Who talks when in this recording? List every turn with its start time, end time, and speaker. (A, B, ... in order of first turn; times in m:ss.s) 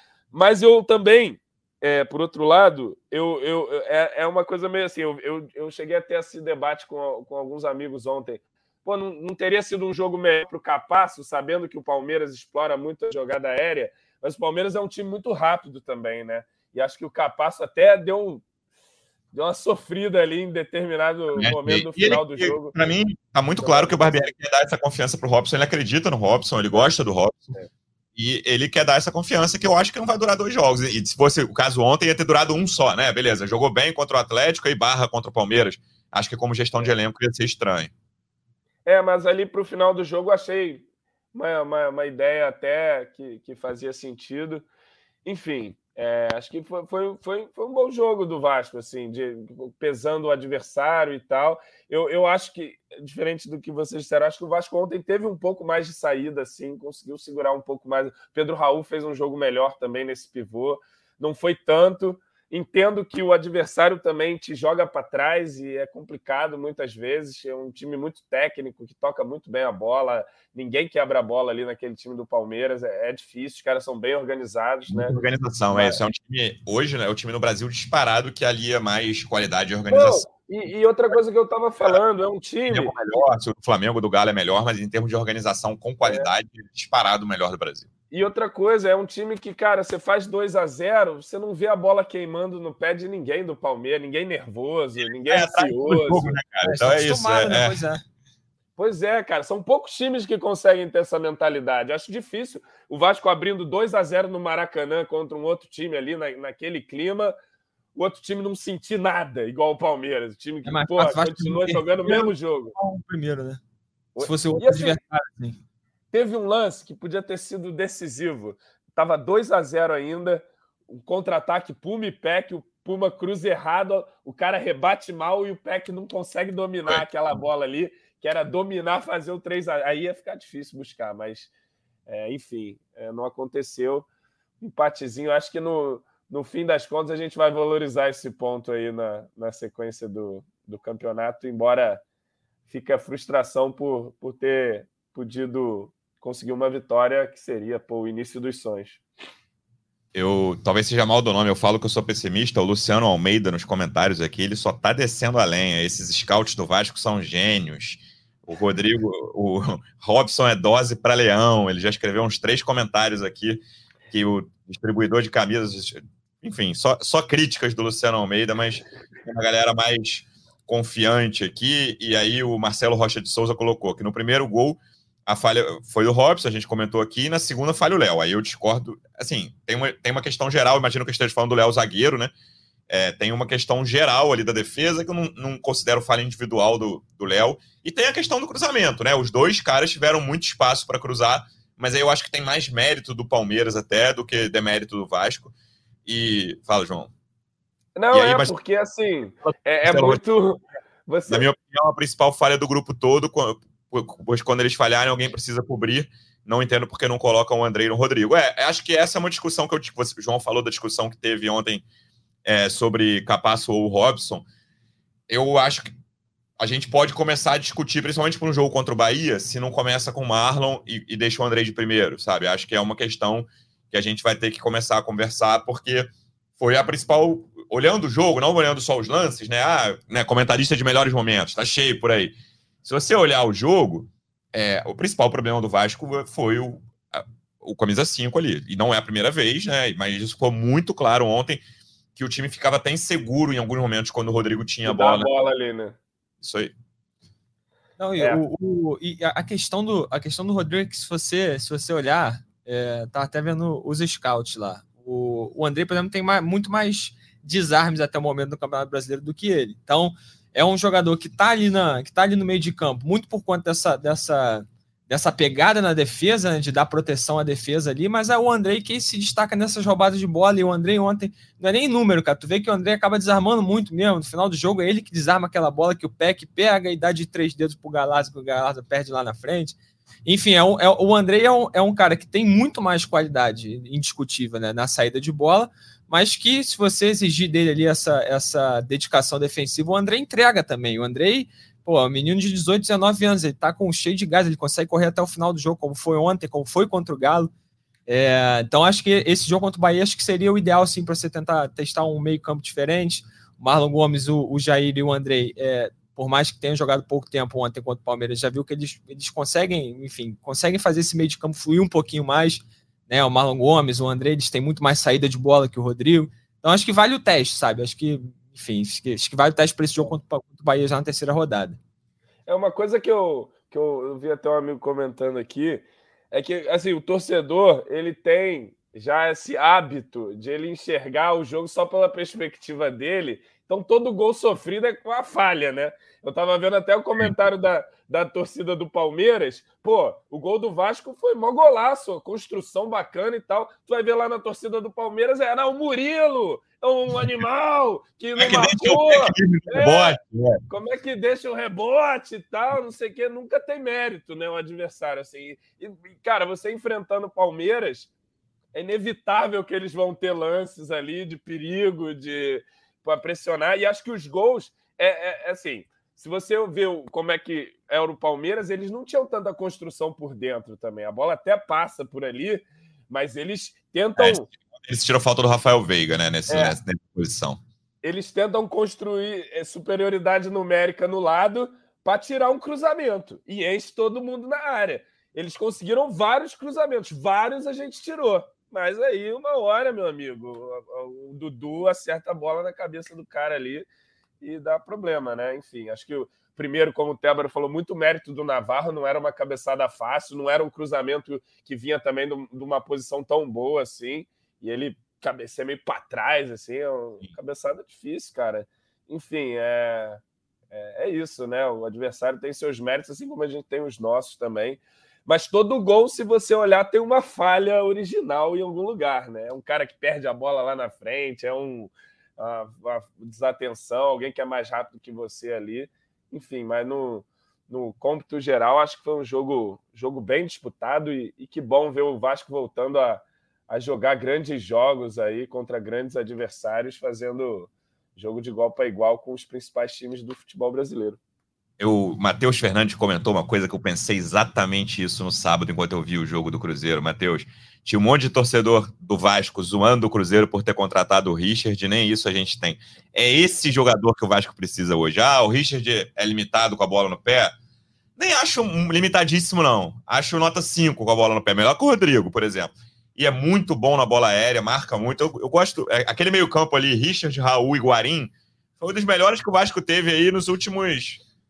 0:00.3-0:18.4 A
0:19.3-0:22.8 A
0:21.3-0:27.5 B
0:23.6-0:24.3 A
0:28.2-0:37.9 B
0:38.8-0:44.6 A
0:45.2-1:15.2 A
1:14.9-1:20.3 B
1:15.7-1:16.0 A
1:19.9-1:23.0 A
1:22.6-1:27.9 B
1:26.0-1:26.3 A
1:28.1-1:36.4 A
1:35.3-1:37.8 B
1:36.6-1:38.0 C
1:38.8-1:47.3 A
1:47.9-1:52.7 A
1:50.6-1:53.6 C
1:54.2-1:55.0 A
1:54.2-1:55.6 C
1:56.1-2:11.5 A
2:12.1-2:14.1 A
2:14.6-2:22.0 A
2:22.7-2:29.0 A
2:30.1-3:02.3 B
3:02.9-3:15.5 B
3:16.0-3:17.1 B
3:18.0-3:21.4 A
3:18.1-3:18.5 B
3:19.8-3:20.2 B
3:21.3-3:31.8 B
3:32.4-3:34.4 B
3:35.3-3:35.9 B
3:36.6-4:01.6 B
4:02.1-4:05.3 B
4:04.8-4:06.0 A
4:06.4-4:06.7 B
4:08.0-4:57.5 C
4:58.1-5:21.8 C
5:22.4-5:50.2 A
5:48.4-5:50.6 B
5:50.7-5:58.1 A
5:58.7-6:14.5 A
6:14.2-6:17.6 B
6:16.5-6:16.8 A
6:18.0-6:33.8 A
6:34.4-6:50.2 A
6:50.7-7:21.2 A
7:21.8-7:37.5 B
7:38.2-7:51.2 B